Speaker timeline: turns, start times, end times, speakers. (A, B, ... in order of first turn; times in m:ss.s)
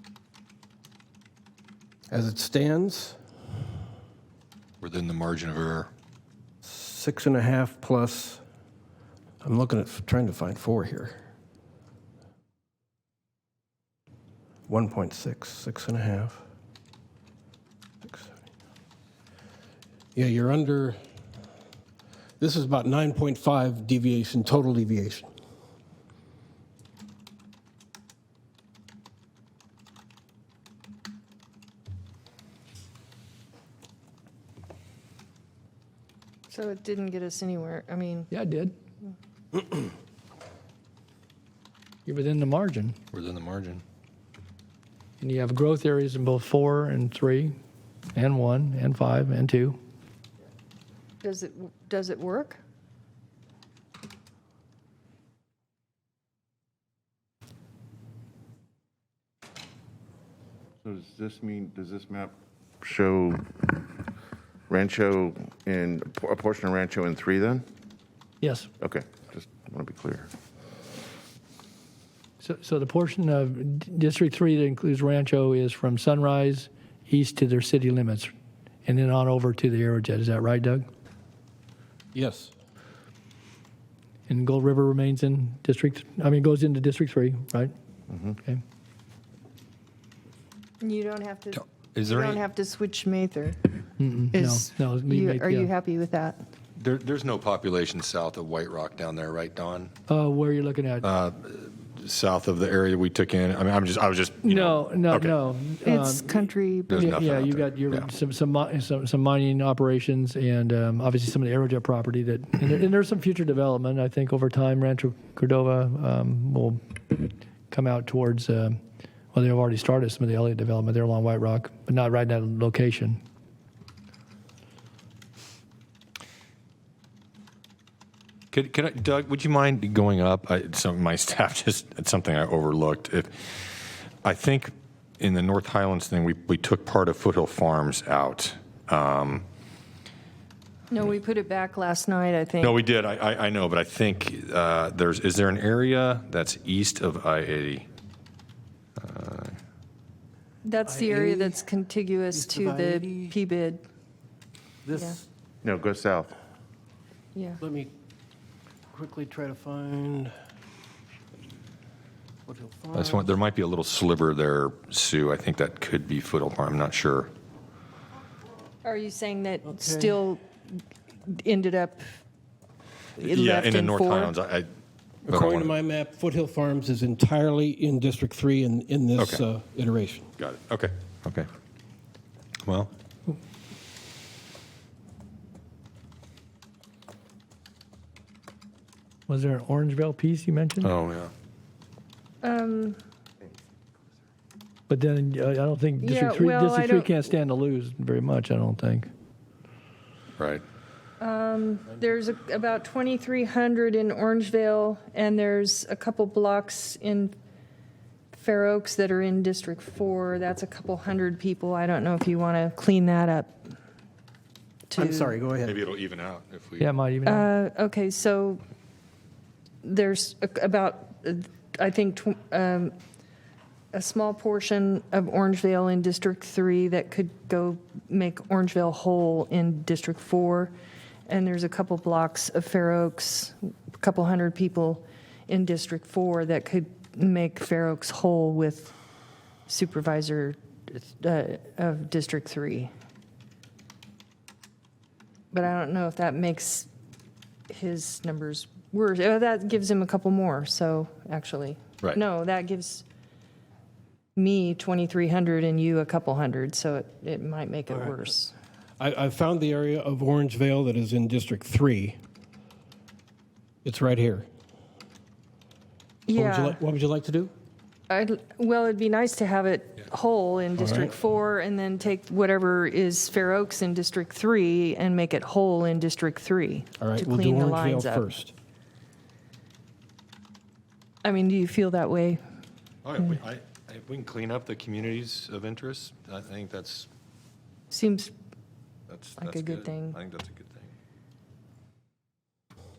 0:02.1-0:03.2 A
0:04.8-0:05.9 B
0:06.6-0:08.4 A
0:09.4-0:11.2 A
0:14.7-0:16.4 A
0:18.0-0:18.4 A
0:20.2-0:21.0 A
0:22.4-0:25.3 A
0:36.5-0:38.3 C
0:38.3-0:38.7 D
0:42.1-0:43.0 D
0:43.1-0:43.8 B
0:45.2-0:47.6 D
0:48.2-0:49.8 D
0:51.2-0:52.6 C
1:00.8-1:04.1 E
1:04.7-1:07.6 E
1:08.4-1:08.7 D
1:08.8-1:10.3 E
1:12.4-1:18.3 D
1:18.9-1:20.9 D
1:22.1-1:22.5 A
1:24.3-1:27.7 D
1:30.8-1:33.7 C
1:31.6-1:32.4 B
1:34.0-1:35.7 D
1:34.3-1:36.4 C
1:36.8-1:39.9 B
1:40.1-1:41.0 D
1:41.0-1:45.4 B
1:44.4-1:58.8 D
1:45.8-1:47.1 C
1:46.9-1:48.1 B
1:59.3-2:03.2 D
2:08.5-2:19.4 B
2:20.9-2:22.8 C
2:22.6-2:27.9 B
2:29.0-2:29.6 B
2:30.6-2:33.8 C
2:30.9-2:31.6 A
2:32.3-2:33.4 A
2:34.9-2:35.2 A
2:35.6-2:36.4 E
2:37.4-2:37.6 C
2:37.6-2:37.9 A
2:38.9-2:40.3 A
2:42.5-2:43.4 A
2:42.9-2:47.3 B
2:48.8-2:50.4 C
2:49.7-2:50.2 A
2:51.3-2:52.0 C
2:53.2-2:54.4 C
2:53.2-2:54.7 B
2:55.3-2:55.7 B
2:55.3-3:00.3 A
2:59.2-2:59.4 B
3:00.4-3:01.5 B
3:02.6-3:02.9 B
3:09.3-3:10.9 D
3:10.8-3:11.3 B
3:12.4-3:13.0 C
3:14.9-3:19.1 D
3:16.0-3:17.1 C
3:20.4-3:20.6 B
3:21.2-3:27.3 C
3:28.3-3:33.7 C
3:34.9-3:35.4 C
3:35.0-3:35.8 A
3:35.6-3:36.9 B
3:36.8-3:37.5 D
3:37.2-3:38.6 C
3:39.8-3:42.9 C
3:43.9-3:50.7 C
3:51.3-3:58.9 C
3:59.7-4:02.9 C
4:05.5-4:06.9 C
4:07.7-4:13.0 C
4:14.4-4:18.5 C
4:19.0-4:22.2 A
4:23.8-4:24.5 A
4:26.3-4:26.8 C
4:26.3-4:27.5 A
4:28.1-4:38.3 C
4:30.8-4:31.2 A
4:37.0-4:38.5 A
4:41.2-4:42.4 C
4:43.0-4:47.1 B
4:47.9-4:48.3 C
4:49.1-4:50.9 B
4:49.4-4:50.2 C